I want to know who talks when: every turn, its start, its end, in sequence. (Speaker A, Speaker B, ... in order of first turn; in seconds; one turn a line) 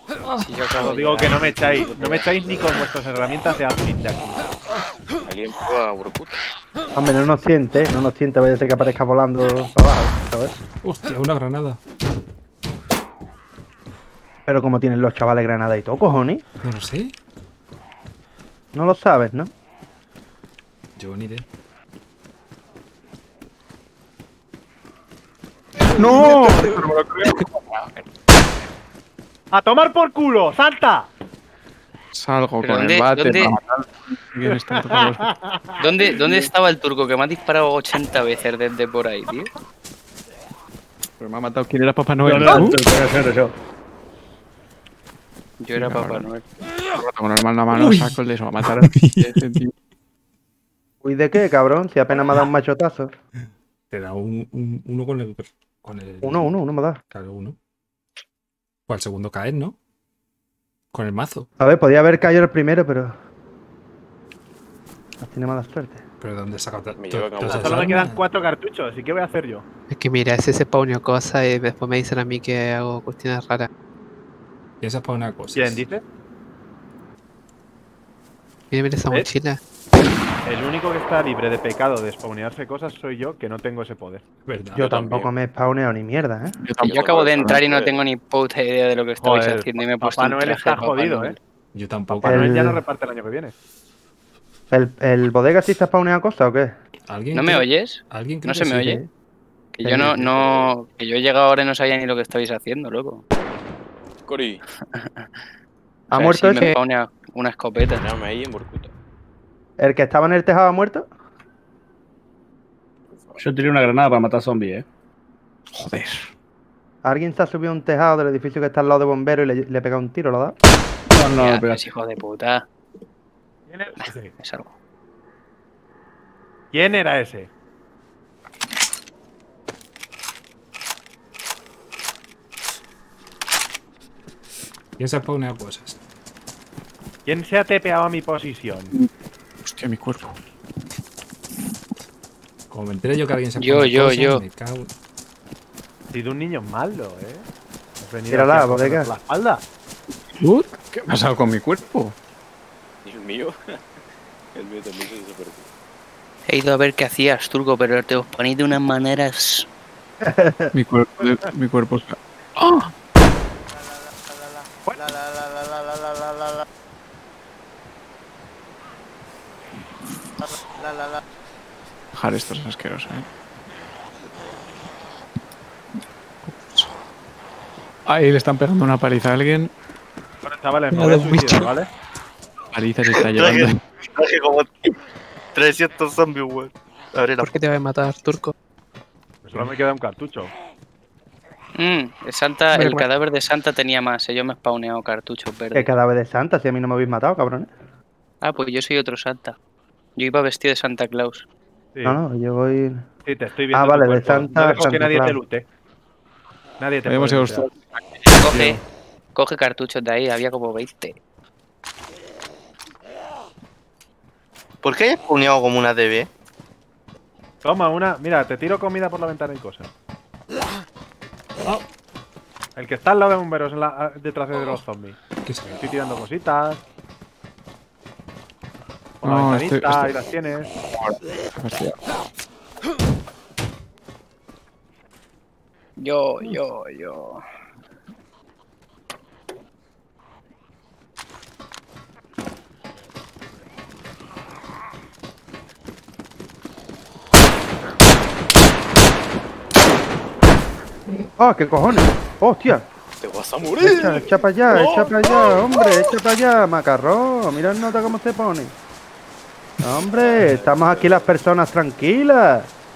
Speaker A: 0.2-0.5
Speaker B: 0.4-2.3
Speaker C: 0.8-4.5
Speaker D: 1.4-2.8
Speaker D: 5.2-6.4
Speaker E: 7.0-10.5
Speaker A: 10.8-11.8
Speaker E: 14.5-16.4
Speaker A: 16.6-17.1
Speaker E: 18.7-19.5
Speaker A: 21.0-21.4
Speaker F: 25.9-28.1
Speaker C: 29.5-31.1
Speaker F: 32.1-35.3
Speaker B: 32.6-33.5
Speaker C: 34.5-35.8
Speaker B: 35.8-39.5
Speaker F: 41.2-42.8
Speaker G: 42.2-43.5
Speaker B: 45.6-46.4
Speaker F: 45.8-46.3
Speaker F: 46.9-49.7
Speaker E: 51.0-53.1
Speaker A: 53.9-56.5
Speaker E: 56.2-57.0
Speaker A: 57.1-57.5
Speaker A: 58.9-59.8
Speaker A: 60.9-61.5
Speaker E: 61.6-63.2
Speaker E: 65.2-66.0
Speaker A: 66.2-68.2
Speaker D: 67.0-68.0
Speaker C: 67.4-69.6
Speaker H: 69.9-73.7
Speaker A: 74.8-75.8
Speaker C: 75.5-76.0
Speaker H: 78.7-79.6
Speaker C: 80.4-84.2
Speaker A: 84.5-85.3
Speaker E: 84.7-86.6
Speaker F: 86.6-87.6
Speaker D: 86.8-88.0
Speaker B: 86.9-91.4
Speaker C: 89.2-91.3
Speaker A: 91.7-92.6
Speaker C: 92.1-93.5
Speaker E: 92.2-92.8
Speaker E: 94.7-96.7
Speaker A: 97.1-98.9
Speaker B: 97.3-99.0
Speaker E: 98.7-99.1
Speaker B: 99.7-103.2
Speaker E: 99.8-100.2
Speaker D: 100.3-100.7
Speaker D: 104.3-104.6
Speaker B: 104.9-105.3
Speaker E: 106.1-106.7
Speaker B: 106.2-108.0
Speaker D: 107.9-108.9
Speaker E: 109.8-111.1
Speaker D: 113.1-113.4
Speaker G: 113.4-114.8
Speaker F: 115.7-116.3
Speaker E: 117.0-120.5
Speaker G: 121.1-121.9
Speaker B: 121.3-122.7
Speaker C: 123.7-124.3
Speaker B: 124.0-124.7
Speaker C: 126.7-127.5
Speaker A: 135.0-136.0
Speaker C: 137.2-138.9
Speaker F: 139.6-140.4
Speaker A: 142.7-144.9
Speaker B: 143.6-144.4
Speaker C: 146.1-147.4
Speaker C: 148.0-149.6
Speaker E: 148.3-149.1
Speaker F: 150.4-152.1
Speaker D: 153.0-153.8
Speaker D: 154.5-155.7
Speaker B: 156.5-159.7
Speaker E: 160.2-160.7
Speaker F: 160.7-162.9
Speaker F: 172.1-173.3
Speaker F: 176.5-176.9
Speaker F: 178.1-179.7
Speaker C: 180.4-181.9
Speaker H: 180.9-181.7
Speaker F: 182.7-183.8
Speaker I: 183.3-184.9
Speaker I: 185.5-187.5
Speaker H: 187.4-188.5
Speaker C: 189.4-190.5
Speaker B: 191.8-195.9
Speaker E: 195.7-197.7
Speaker B: 198.4-199.6
Speaker B: 200.2-201.4
Speaker E: 202.0-203.1
Speaker C: 203.2-205.7
Speaker E: 203.7-205.4
Speaker C: 206.8-207.7
Speaker F: 207.1-208.8
Speaker B: 208.4-208.8
Speaker B: 209.3-211.2
Speaker I: 214.8-216.3
Speaker C: 217.6-219.9
Speaker C: 222.8-225.2
Speaker A: 225.4-225.8
Speaker C: 225.7-226.8
Speaker C: 229.2-230.7
Speaker F: 229.2-230.2
Speaker F: 230.9-232.0
Speaker B: 236.0-237.4
Speaker E: 251.4-252.8
Speaker D: 253.2-256.1
Speaker E: 253.8-258.7
Speaker E: 259.8-262.7
Speaker D: 260.0-261.3